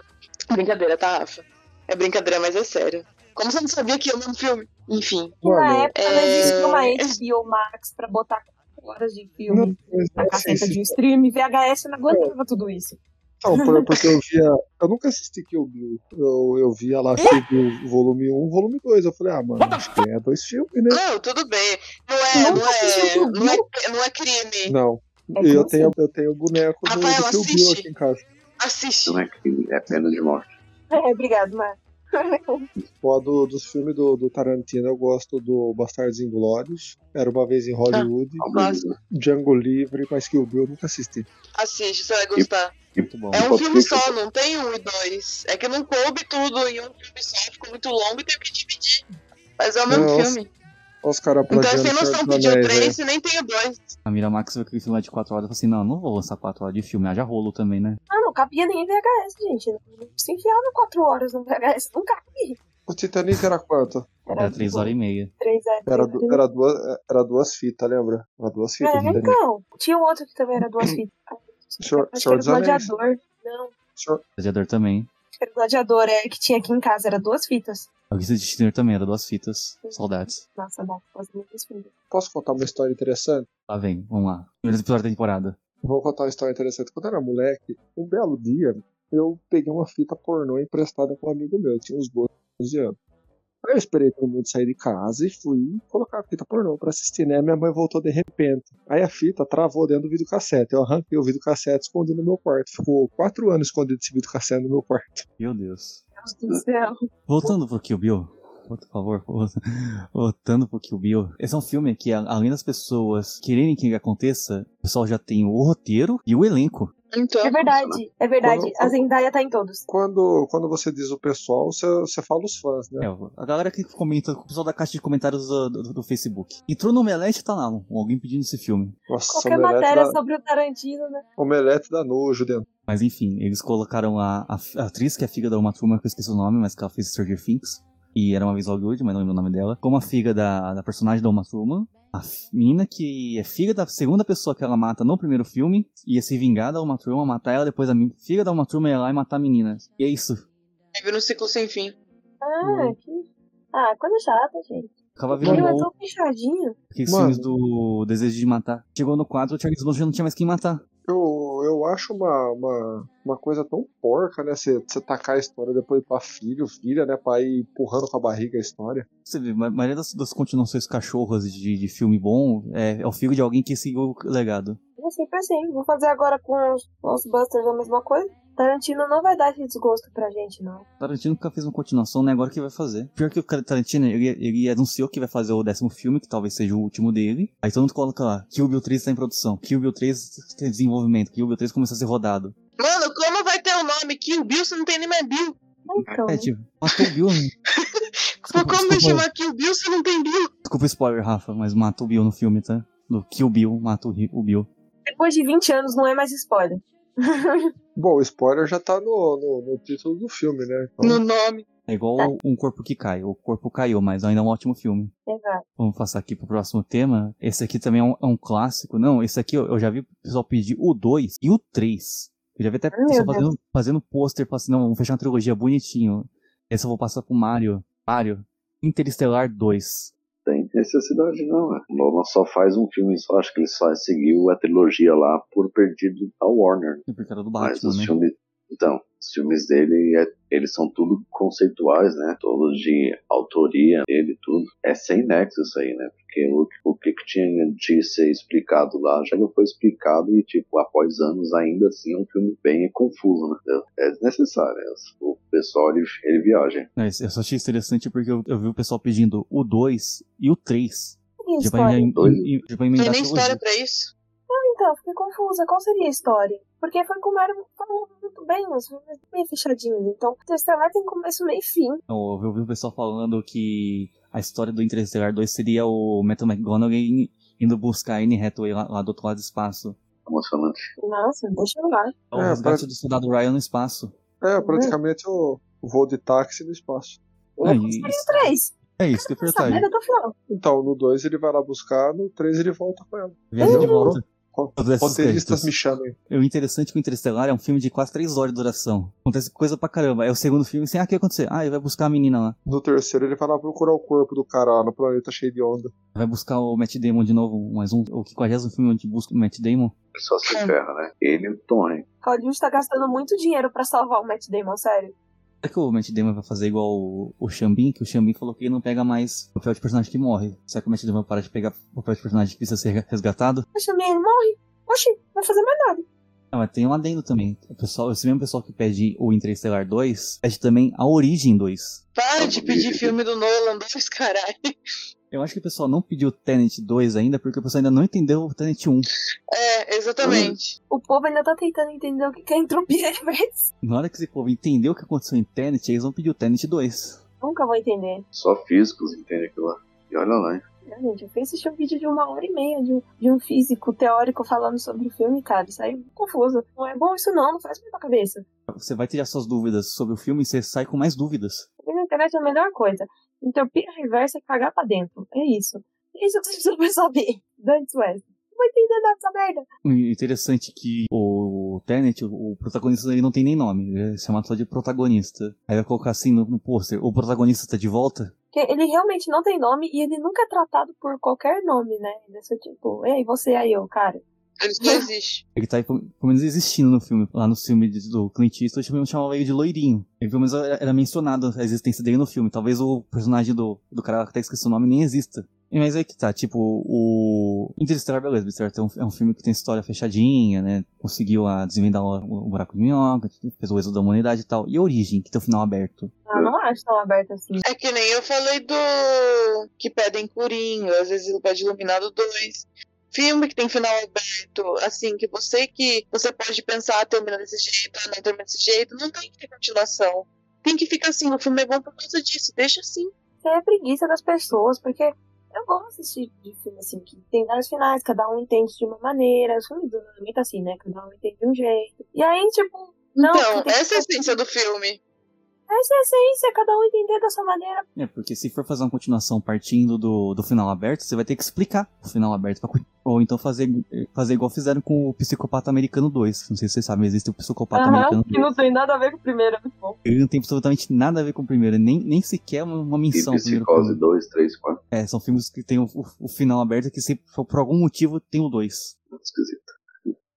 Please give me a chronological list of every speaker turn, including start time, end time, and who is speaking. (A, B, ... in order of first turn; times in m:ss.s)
0:00.5-0:05.4 A
0:05.4-0:13.0 B
0:05.4-0:06.6 C
0:06.0-0:07.1 A
0:09.5-0:11.0 C
0:13.4-0:21.0 C
0:13.5-0:13.8 B
0:20.9-0:24.7 A
0:22.3-0:23.6 B
0:24.7-0:28.2 C
0:25.4-0:25.9 B
0:26.8-0:27.8 A
0:28.6-0:29.2 A
0:29.0-0:30.5 D
0:30.9-0:32.7 B
0:33.0-0:38.4 C
0:37.9-0:38.8 A
0:38.4-0:39.0 D
0:39.1-0:41.3 C
0:41.6-0:42.7 A
0:42.4-0:44.1 D
0:43.1-0:43.5 E
0:43.3-0:49.0 A
0:49.6-0:50.5 A
0:49.9-0:50.4 C
0:51.0-0:53.0 C
0:51.5-0:53.9 A
0:54.0-0:58.0 E
0:58.1-1:02.6 B
1:02.9-1:04.0 C
1:04.2-1:06.4 B
1:04.4-1:05.3 E
1:05.9-1:09.4 C
1:08.8-1:13.7 B
1:11.8-1:12.9 C
1:14.0-1:14.2 C
1:14.4-1:15.1 E
1:15.4-1:17.9 B
1:18.1-1:20.4 E
1:19.8-1:21.9 B
1:22.1-1:23.5 C
1:23.7-1:25.6 E
1:25.8-1:33.0 C
1:33.6-1:45.2 C
1:45.4-1:46.0 E
1:46.2-1:47.5 B
1:47.3-1:56.9 E
1:57.1-1:57.6 A
1:57.4-1:59.8 B
1:57.7-1:58.0 D
1:58.4-1:59.0 C
1:59.9-2:03.1 C
2:03.0-2:09.0 E
2:09.1-2:10.2 C
2:09.3-2:11.2 B
2:11.4-2:12.6 C
2:12.9-2:30.4 E
2:31.0-2:31.9 A
2:32.4-2:36.8 B
2:32.6-2:33.0 C
2:35.2-2:35.9 E
2:35.3-2:35.7 C
2:36.9-2:40.8 E
2:37.1-2:37.5 C
2:41.1-2:49.0 C
2:49.2-2:54.8 E
2:55.0-3:00.8 B
3:01.0-3:12.6 E
3:12.8-3:15.6 A
3:15.9-3:16.5 B
3:16.2-3:17.5 E
3:17.8-3:20.5 A
3:18.5-3:19.2 E
3:20.6-3:24.7 E
3:25.1-3:27.7 B
3:28.0-3:31.2 C
3:31.0-3:31.6 A
3:31.9-3:35.1 E
3:35.3-3:35.6 B
3:35.8-3:50.1 E
3:42.9-3:43.5 B
3:50.4-3:57.0 D
3:57.1-3:58.1 E
3:57.6-4:16.9 D
4:17.0-4:23.6 E
4:21.4-4:22.1 B
4:22.1-4:22.5 D
4:23.0-4:24.1 A
4:24.5-4:32.0 B
4:32.1-4:40.0 E
4:40.2-4:40.9 D
4:41.0-4:42.2 B
4:42.3-4:44.1 E
4:42.3-4:42.8 C
4:44.4-4:47.2 C
4:44.6-4:45.0 B
4:47.6-4:50.3 B
4:47.6-4:49.9 E
4:50.5-4:56.1 C
4:53.5-4:54.2 E
4:53.6-4:54.2 B
4:54.8-4:55.7 E
4:56.3-5:02.6 E
5:02.7-5:05.9 C
5:06.1-5:09.9 E
5:10.1-5:12.0 D
5:12.2-5:15.1 B
5:15.6-5:23.6 E
5:23.7-5:26.0 B
5:26.5-5:32.0 E
5:32.2-5:34.7 A
5:32.4-5:33.1 D
5:35.3-5:39.1 E
5:39.5-5:40.8 A
5:40.2-5:40.6 D
5:40.9-5:43.7 B
5:43.8-5:47.2 E
5:47.4-5:48.2 B
5:48.3-5:50.6 D
5:50.9-5:58.4 B
5:58.7-6:01.7 E
6:01.8-6:09.6 B
6:09.8-6:18.3 E
6:18.5-6:24.2 B
6:24.6-6:25.4 A
6:24.8-6:25.1 B
6:25.6-6:46.1 E
6:46.3-6:47.6 B
6:47.6-7:03.1 A
7:03.4-7:14.4 B
7:13.2-7:15.0 A
7:15.7-7:17.8 B
7:18.0-7:28.5 E
7:27.7-7:30.0 B
7:30.0-7:34.0 E
7:33.1-7:34.8 D
7:34.9-7:38.9 E
7:39.1-7:40.1 D